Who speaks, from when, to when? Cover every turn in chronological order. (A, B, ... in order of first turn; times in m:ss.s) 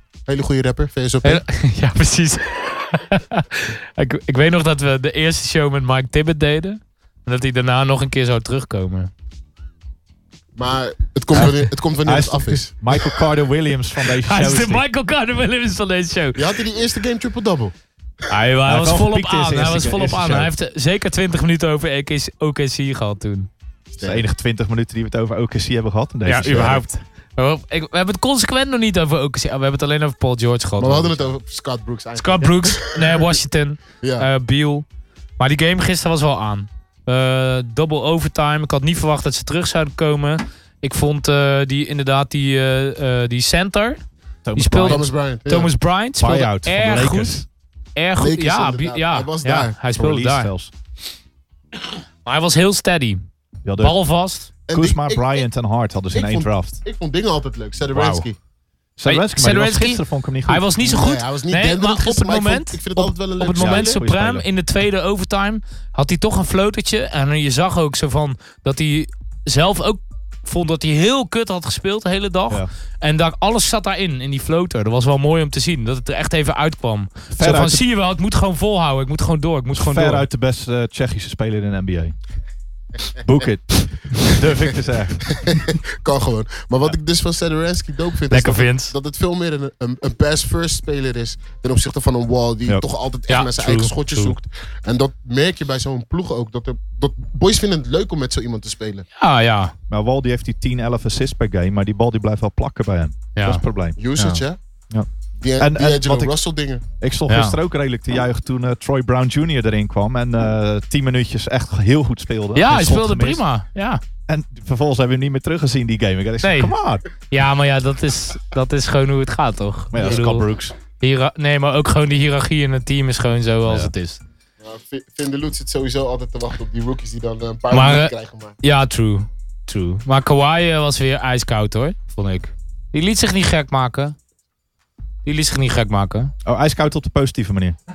0:00.3-0:01.4 A
0:01.2-0:09.1 B
0:10.6-0:12.8 A
0:12.0-0:14.8 C
0:14.2-0:16.4 B
0:16.4-0:17.7 A
0:18.3-0:23.5 B
0:18.6-0:20.5 C
0:24.0-0:24.2 A
0:24.0-0:26.9 C
0:26.2-0:31.3 B
0:30.8-0:33.3 A
0:32.2-0:34.8 B
0:34.0-0:34.3 A
0:35.4-0:44.0 B
0:44.4-0:45.1 C
0:44.6-0:47.4 B
0:44.8-0:45.7 A
0:46.2-0:47.4 C
0:48.0-0:50.5 B
0:48.2-0:49.8 A
0:50.0-0:50.7 C
0:52.2-0:53.2 B
0:53.6-0:53.9 C
0:53.8-0:54.5 B
0:54.7-0:55.4 A
0:54.7-0:56.8 C
0:56.1-0:58.4 A
0:57.9-0:58.2 C
0:59.0-1:00.6 C
0:59.0-1:20.2 B
1:00.8-1:04.0 A
1:03.5-1:04.4 C
1:17.3-1:17.8 C
1:19.7-1:22.2 C
1:23.2-1:25.4 C
1:25.4-1:39.0 A
1:28.3-1:28.9 B
1:33.3-1:34.4 B
1:39.2-1:39.7 B
1:39.9-1:44.0 C
1:43.3-1:43.6 B
1:44.0-1:44.6 A
1:44.2-1:44.4 B
1:44.9-1:46.3 C
1:45.4-1:46.8 A
1:47.0-1:53.4 C
1:47.3-1:47.6 B
1:52.5-1:54.0 B
1:54.3-1:57.0 C
1:56.4-1:56.7 B
1:57.3-2:00.4 B
1:59.9-2:00.7 C
2:01.0-2:04.2 B
2:03.6-2:03.9 C
2:04.6-2:08.5 A
2:07.7-2:14.2 B
2:15.2-2:16.3 B
2:16.4-2:17.8 C